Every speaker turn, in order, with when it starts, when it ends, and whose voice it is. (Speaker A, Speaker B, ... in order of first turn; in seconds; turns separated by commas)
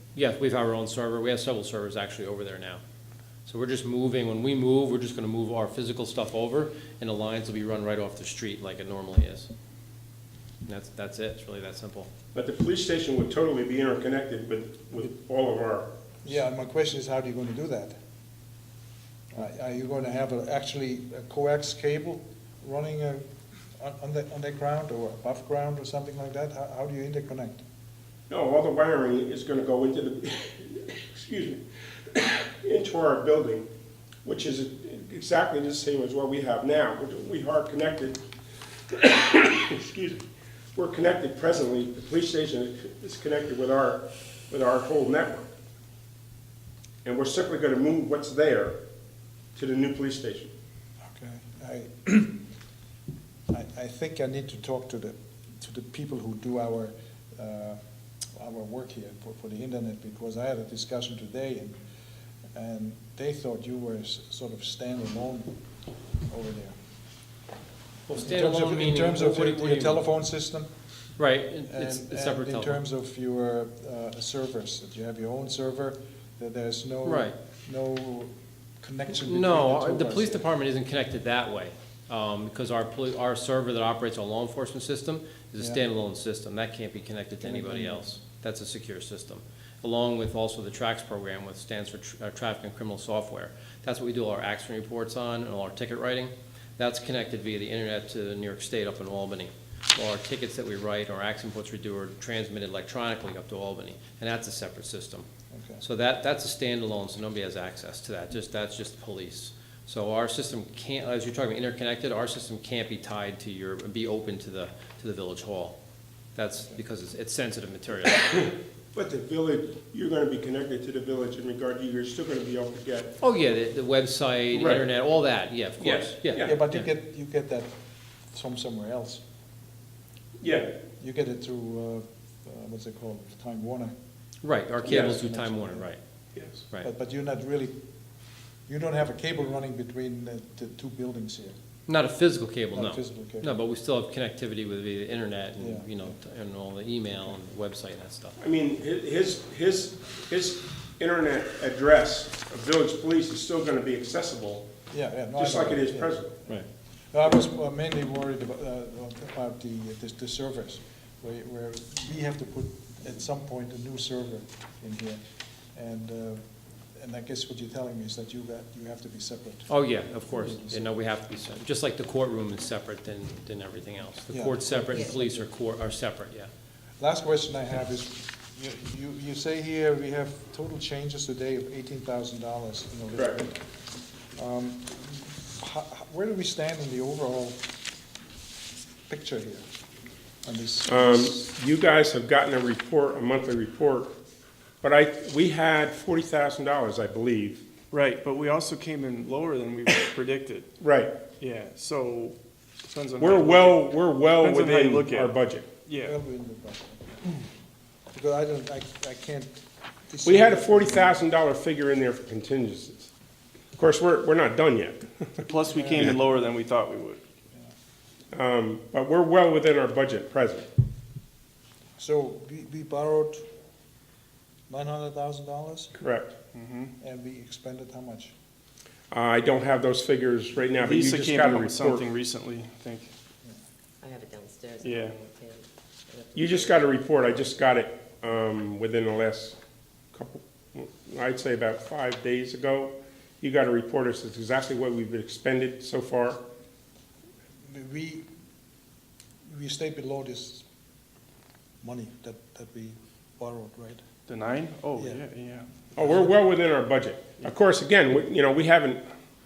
Speaker A: 0.1-2.8, Speaker A: 3.5-9.5, Speaker A: 10.6-12.1, Speaker B: 12.3-15.9, Speaker C: 16.2-18.0, Speaker C: 19.3-27.6, Speaker B: 28.3-33.7, Speaker B: 34.2-38.2, Speaker B: 38.9-45.5, Speaker B: 47.0-48.8, Speaker B: 49.5-50.5, Speaker C: 51.0-52.4, Speaker C: 53.5-57.8, Speaker C: 58.4-61.8, Speaker C: 62.5-65.6, Speaker C: 66.3-66.8, Speaker A: 68.1-70.0, Speaker C: 68.1-70.7, Speaker A: 71.2-72.8, Speaker C: 71.7-80.5, Speaker A: 77.0-77.3, Speaker A: 79.1-105.3, Speaker C: 85.6-85.8, Speaker C: 87.4-88.0, Speaker C: 105.5-105.8, Speaker A: 105.8-115.8, Speaker A: 116.3-118.2, Speaker B: 118.2-123.2, Speaker A: 123.2-126.8, Speaker B: 124.5-124.9, Speaker B: 125.8-126.6, Speaker C: 126.4-127.7, Speaker C: 128.3-129.2, Speaker B: 130.4-130.7, Speaker C: 131.0-133.9, Speaker A: 134.4-136.0, Speaker C: 134.8-135.9, Speaker B: 134.8-135.2, Speaker C: 136.8-137.7, Speaker C: 138.7-141.6, Speaker A: 141.9-148.3, Speaker C: 142.7-143.5, Speaker C: 145.6-146.1, Speaker B: 148.4-154.7, Speaker C: 154.9-156.6, Speaker B: 155.3-156.3, Speaker C: 157.1-165.2, Speaker C: 165.7-166.4, Speaker C: 166.9-169.7, Speaker A: 169.7-176.5, Speaker C: 170.4-170.9, Speaker C: 174.3-175.5, Speaker C: 177.0-183.7, Speaker B: 183.1-183.4, Speaker C: 184.3-187.6, Speaker C: 189.1-189.7, Speaker C: 190.4-191.5, Speaker B: 190.9-194.1, Speaker B: 194.8-197.6, Speaker D: 197.9-200.8, Speaker B: 200.8-201.2, Speaker D: 201.4-206.2, Speaker B: 203.2-205.7, Speaker C: 206.0-207.3, Speaker C: 208.1-209.5, Speaker C: 210.1-211.2, Speaker B: 210.2-213.1, Speaker B: 213.8-215.4, Speaker D: 215.4-217.2, Speaker C: 215.6-216.1, Speaker B: 218.3-220.7, Speaker C: 222.0-223.4, Speaker C: 224.7-225.9, Speaker B: 225.9-226.3, Speaker D: 226.5-226.9, Speaker C: 227.0-228.3, Speaker B: 229.1-232.1, Speaker D: 230.8-233.1, Speaker E: 234.0-236.7, Speaker D: 234.8-235.1, Speaker B: 236.3-239.6, Speaker B: 240.1-246.4, Speaker C: 247.7-248.3, Speaker C: 249.4-250.6, Speaker C: 251.8-254.0, Speaker D: 254.3-255.7, Speaker C: 254.9-255.2, Speaker B: 255.9-259.1, Speaker C: 256.0-256.3